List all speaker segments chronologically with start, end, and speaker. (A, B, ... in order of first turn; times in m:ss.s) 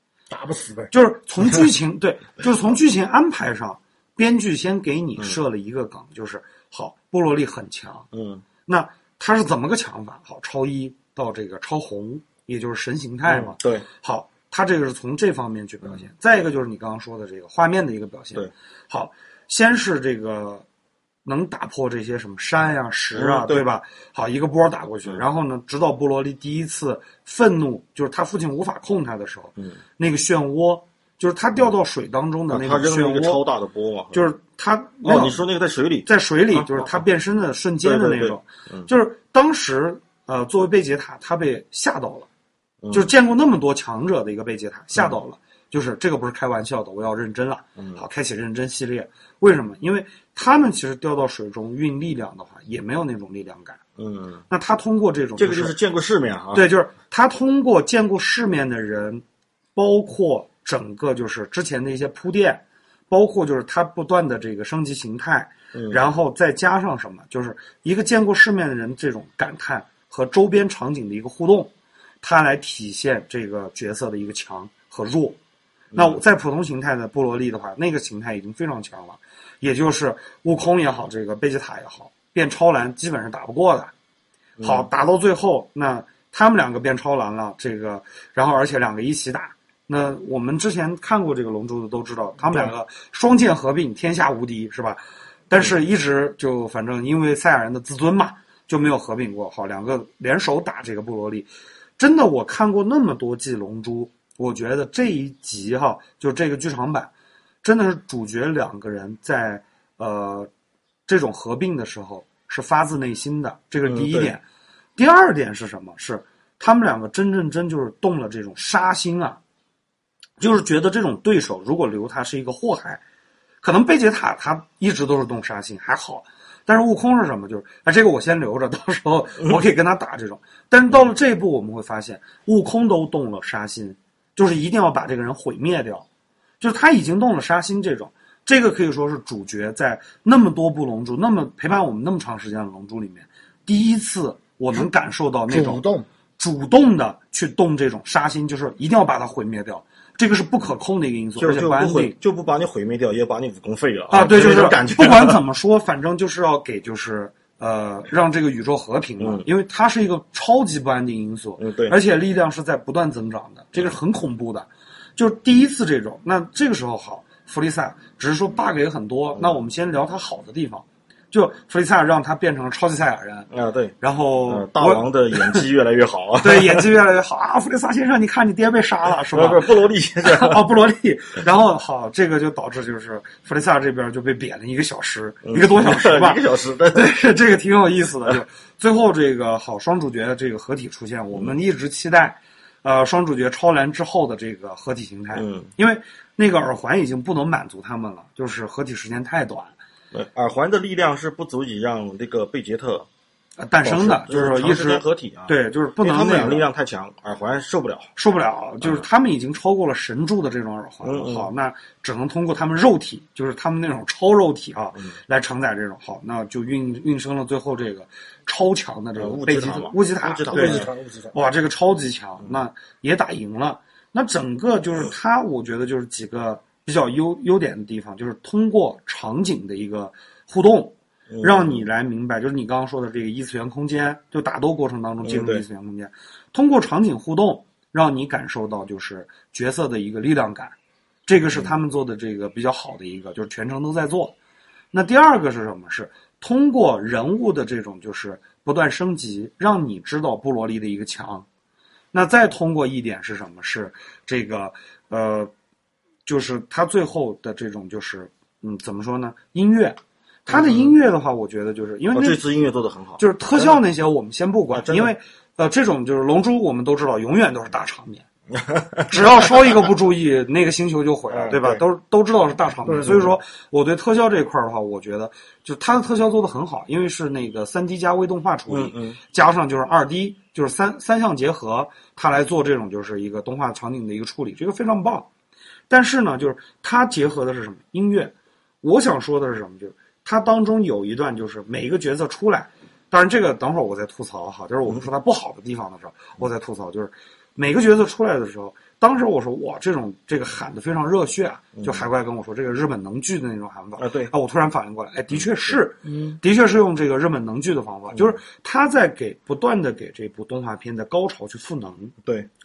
0:00.3-0:00.9 A
0:00.9-0:08.1 B
0:08.1-0:08.4 C
0:08.7-0:20.7 B
0:13.3-0:13.9 C
0:21.2-0:33.4 B
0:23.1-0:23.7 C
0:32.5-0:34.3 C
0:34.1-0:35.4 B
0:35.0-0:37.0 C
0:36.0-0:42.3 B
0:37.8-0:38.9 C
0:42.8-0:43.1 C
0:42.9-0:53.8 B
0:47.8-0:48.0 C
0:54.0-0:54.4 C
0:54.5-0:55.8 B
0:55.4-0:56.7 C
0:56.5-0:59.2 B
0:59.8-1:15.4 B
1:05.7-1:06.1 C
1:15.9-1:16.2 C
1:15.9-1:23.9 B
1:24.6-1:24.9 C
1:24.6-1:47.1 B
1:32.5-1:32.7 C
1:47.6-1:50.5 B
1:51.1-1:54.4 B
1:53.8-1:54.4 C
1:55.0-1:59.4 B
2:00.4-2:03.0 B
2:03.6-2:16.1 B
2:16.6-2:25.8 B
2:25.5-2:26.1 A
2:26.4-2:32.2 B
2:31.4-2:35.4 C
2:34.1-2:53.5 B
2:39.2-2:39.5 C
2:41.6-2:42.0 C
2:49.4-2:49.6 C
2:53.5-2:54.0 C
2:54.0-2:55.7 B
2:54.5-2:56.9 C
2:56.4-3:06.4 B
2:59.3-3:00.6 C
3:05.4-3:07.1 C
3:06.9-3:19.8 B
3:15.4-3:15.7 C
3:20.1-3:23.1 C
3:23.6-3:26.7 B
3:23.8-3:28.1 C
3:28.2-4:00.8 B
3:28.8-3:29.1 C
3:31.0-3:31.5 C
3:39.2-3:40.9 C
3:40.4-3:41.4 A
3:51.3-3:51.8 C
3:55.2-3:55.6 C
4:01.3-4:04.4 B
4:04.9-4:11.5 B
4:12.1-4:15.5 B
4:16.3-4:22.4 B
4:20.5-4:21.0 C
4:22.1-4:23.8 C
4:23.2-4:28.3 B
4:24.7-4:25.1 C
4:28.5-4:29.9 C
4:29.1-4:45.3 B
4:31.3-4:31.8 C
4:32.9-4:33.3 A
4:38.7-4:39.2 C
4:45.9-5:12.1 B
5:01.8-5:02.1 C
5:04.0-5:04.3 C
5:05.3-5:05.8 C
5:06.0-5:06.4 A
5:08.1-5:08.4 C
5:12.2-5:12.5 C